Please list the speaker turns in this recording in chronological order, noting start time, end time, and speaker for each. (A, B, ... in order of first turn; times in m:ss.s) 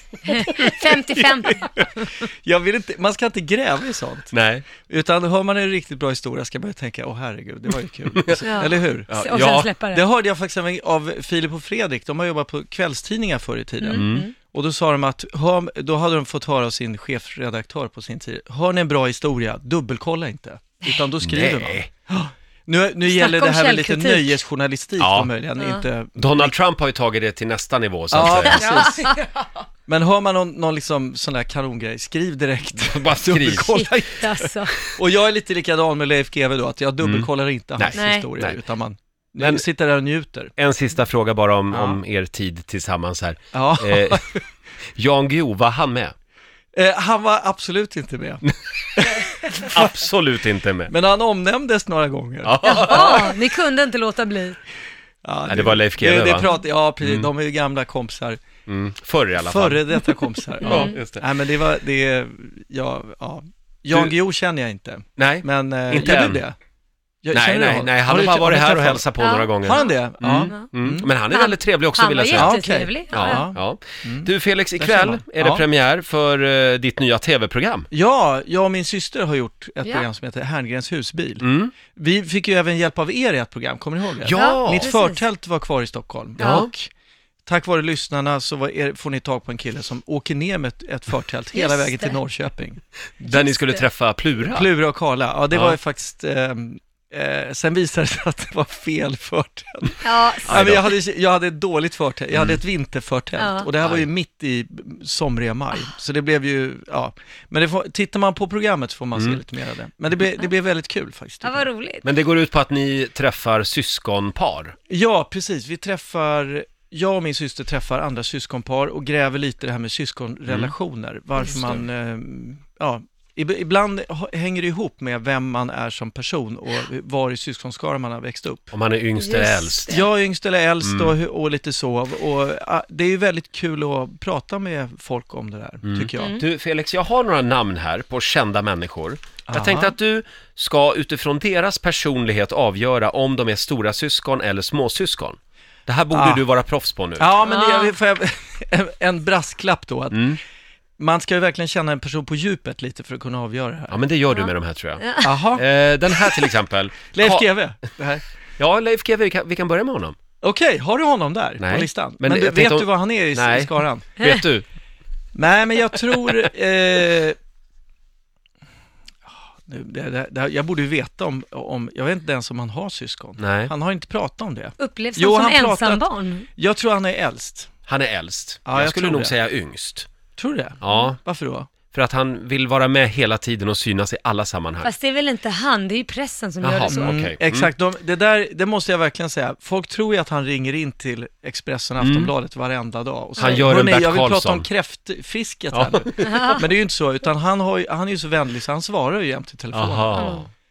0:00.3-0:02.1 A
0:00.5-0:01.9 B
0:02.4-0:09.3 B
0:04.3-0:04.7 C
0:08.4-0:10.0 A
0:09.1-0:09.7 C
0:09.9-0:13.9 B
0:13.8-0:14.3 A
0:13.9-0:14.3 C
0:14.5-0:26.6 B
0:21.2-0:21.9 C
0:23.0-0:24.4 A
0:25.0-0:25.3 C
0:25.6-0:25.8 A
0:26.2-0:29.0 C
0:28.1-0:29.0 B
0:28.5-0:29.2 A
0:29.9-0:40.5 B
0:32.8-0:33.7 C
0:33.7-0:34.8 A
0:37.0-0:38.6 C
0:37.9-0:38.3 A
0:39.4-0:39.7 C
0:40.6-0:44.3 C
0:41.7-0:42.0 B
0:43.5-0:44.4 B
0:45.0-0:46.1 C
0:46.7-0:48.4 B
0:48.4-0:50.9 C
0:49.0-0:50.0 B
0:50.9-0:53.2 B
0:52.4-0:53.3 C
0:52.6-0:54.6 A
0:55.2-0:58.4 B
0:55.5-0:57.3 C
0:58.7-1:01.2 C
0:59.4-1:06.6 B
1:00.6-1:01.0 A
1:05.2-1:06.4 C
1:07.2-1:09.1 B
1:07.3-1:12.6 C
1:09.2-1:10.7 A
1:09.7-1:11.1 B
1:11.3-1:13.5 A
1:12.4-1:15.7 B
1:13.1-1:17.9 C
1:17.9-1:26.9 B
1:21.4-1:21.8 C
1:24.2-1:24.9 C
1:24.3-1:25.2 A
1:26.4-1:26.7 C
1:26.4-1:26.7 A
1:27.5-1:32.8 B
1:31.5-1:32.2 A
1:33.2-1:34.7 C
1:33.2-1:33.8 A
1:34.5-1:51.7 B
1:35.5-1:35.8 C
1:40.0-1:40.6 A
1:40.4-1:40.9 C
1:42.3-1:42.6 C
1:43.4-1:43.7 A
1:43.8-1:44.1 C
1:49.2-1:49.4 C
1:51.4-1:52.1 A
1:52.0-1:54.8 C
1:54.9-2:08.7 B
2:00.5-2:00.7 C
2:01.4-2:01.8 A
2:08.7-2:10.0 C
2:09.2-2:10.0 A
2:09.9-2:16.3 B
2:10.8-2:11.2 C
2:15.8-2:27.3 C
2:16.2-2:16.4 A
2:19.5-2:20.0 B
2:26.1-2:26.4 B
2:27.2-2:30.3 B
2:27.4-2:27.9 A
2:30.1-2:30.4 C
2:31.0-2:34.0 B
2:33.9-2:37.6 C
2:34.3-2:35.4 A
2:35.2-2:35.6 B
2:37.1-2:38.2 B
2:38.6-2:40.2 C
2:40.4-2:44.1 B
2:41.6-2:44.7 C
2:44.2-2:44.5 A
2:45.3-2:47.4 B
2:49.7-2:56.0 B
2:53.4-2:53.7 C
2:54.8-2:56.5 A
2:56.6-2:57.7 B
2:57.9-3:00.1 C
2:58.6-2:59.4 B
3:00.4-3:01.7 B
3:00.8-3:01.2 C
3:01.9-3:04.9 C
3:04.8-3:07.2 A
3:06.6-3:07.7 C
3:07.1-3:20.2 B
3:12.0-3:12.3 C
3:13.4-3:13.7 A
3:13.4-3:14.7 C
3:15.7-3:16.6 C
3:16.2-3:16.6 A
3:19.7-3:20.5 C
3:20.2-3:20.5 A